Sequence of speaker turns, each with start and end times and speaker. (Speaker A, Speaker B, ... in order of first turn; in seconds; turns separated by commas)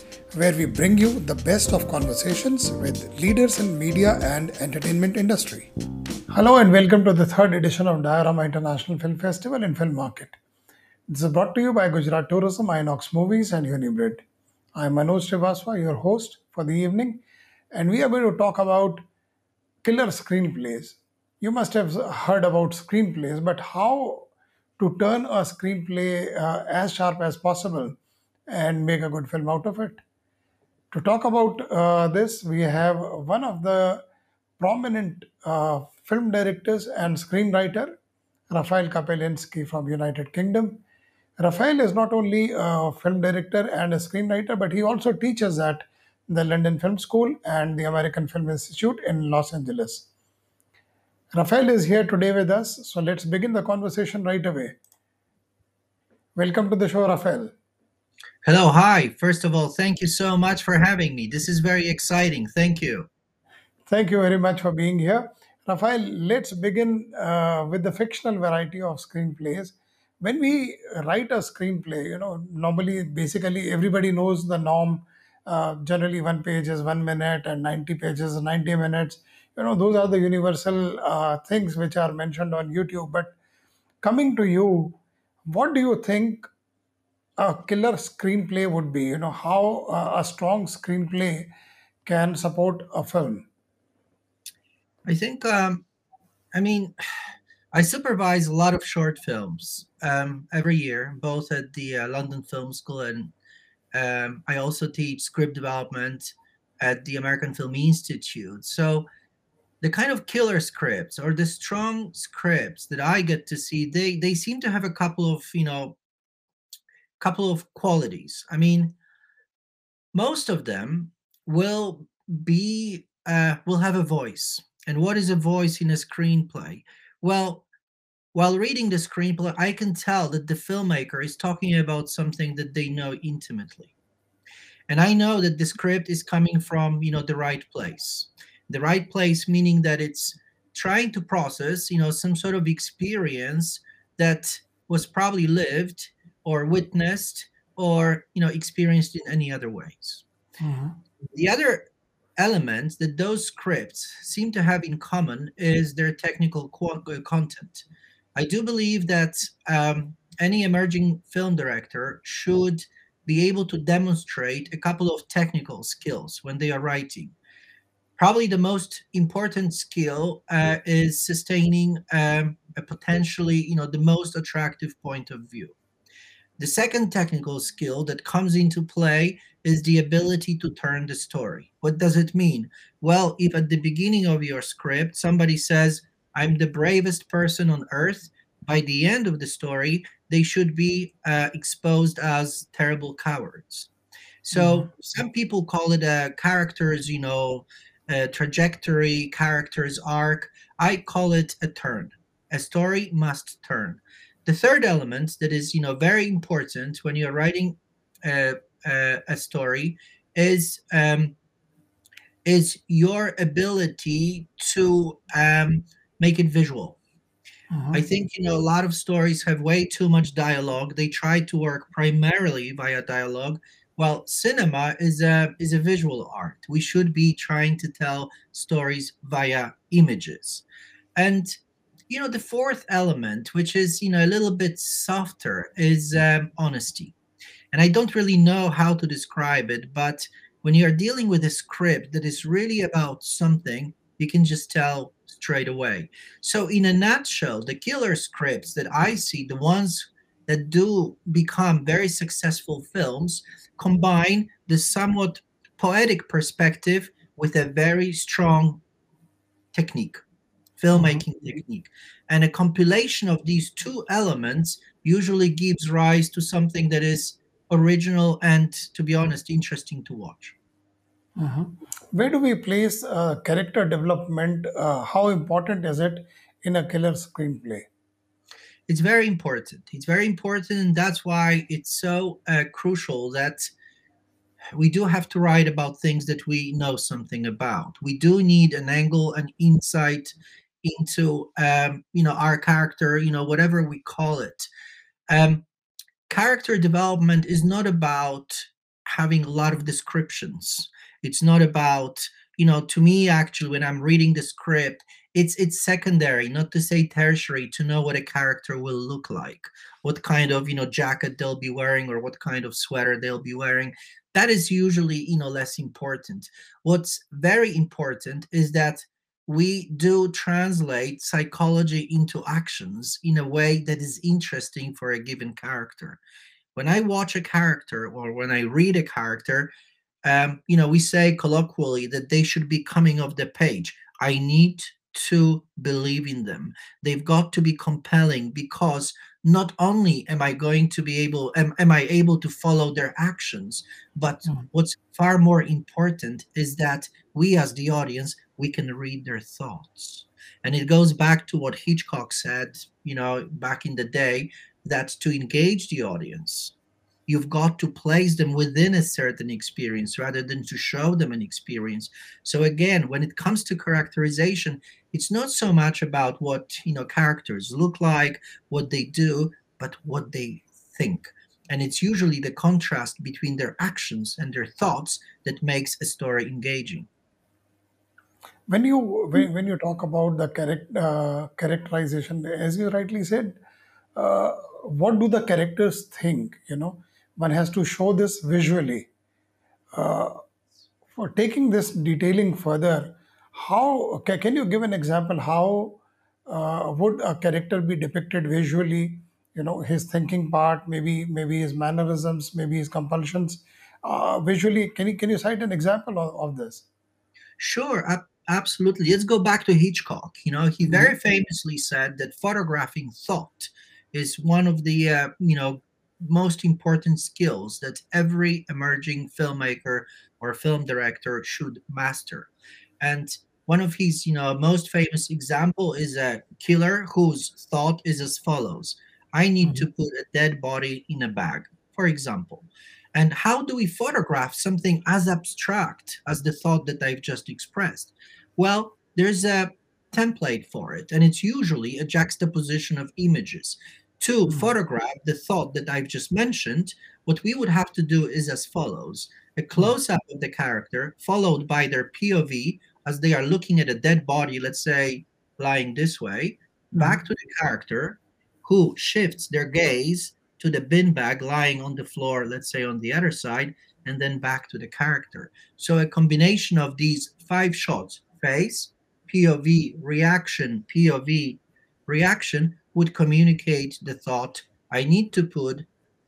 Speaker A: 0.3-5.7, Speaker A: 6.3-10.4, Speaker A: 11.1-14.2, Speaker A: 14.8-19.1, Speaker A: 19.8-28.0, Speaker A: 28.5-30.0, Speaker A: 30.9-34.0, Speaker A: 34.6-38.0, Speaker A: 38.5-40.8, Speaker A: 41.4-50.1, Speaker A: 51.3-54.8, Speaker A: 56.4-57.5, Speaker B: 58.4-63.1, Speaker A: 63.9-83.3, Speaker A: 84.0-86.5, Speaker A: 87.4-91.5, Speaker A: 92.0-93.5, Speaker B: 95.1-95.8, Speaker B: 96.5-97.0, Speaker B: 97.7-103.3, Speaker B: 103.9-109.1, Speaker B: 109.8-116.0, Speaker B: 117.2-119.0, Speaker B: 120.1-127.7, Speaker B: 128.3-133.9, Speaker B: 134.9-150.2, Speaker A: 150.6-151.0, Speaker B: 151.3-151.8, Speaker B: 152.4-167.3, Speaker B: 168.2-175.8, Speaker B: 176.6-193.9, Speaker B: 194.4-211.3, Speaker A: 194.5-194.9, Speaker B: 212.4-217.0, Speaker A: 217.7-218.0, Speaker B: 217.9-230.7, Speaker B: 231.2-237.2, Speaker B: 237.7-258.8, Speaker B: 259.7-260.2, Speaker B: 260.8-270.6, Speaker A: 260.9-261.2, Speaker A: 271.4-277.9, Speaker B: 278.9-283.7, Speaker B: 284.8-294.7, Speaker B: 295.3-295.6, Speaker B: 296.3-326.2, Speaker B: 326.8-329.7, Speaker B: 330.2-356.7, Speaker B: 357.3-377.1, Speaker A: 378.7-383.6, Speaker A: 384.1-389.1, Speaker A: 389.9-390.4, Speaker A: 391.1-406.9, Speaker B: 407.6-422.5, Speaker A: 410.9-411.1, Speaker B: 423.0-475.9, Speaker A: 456.9-457.2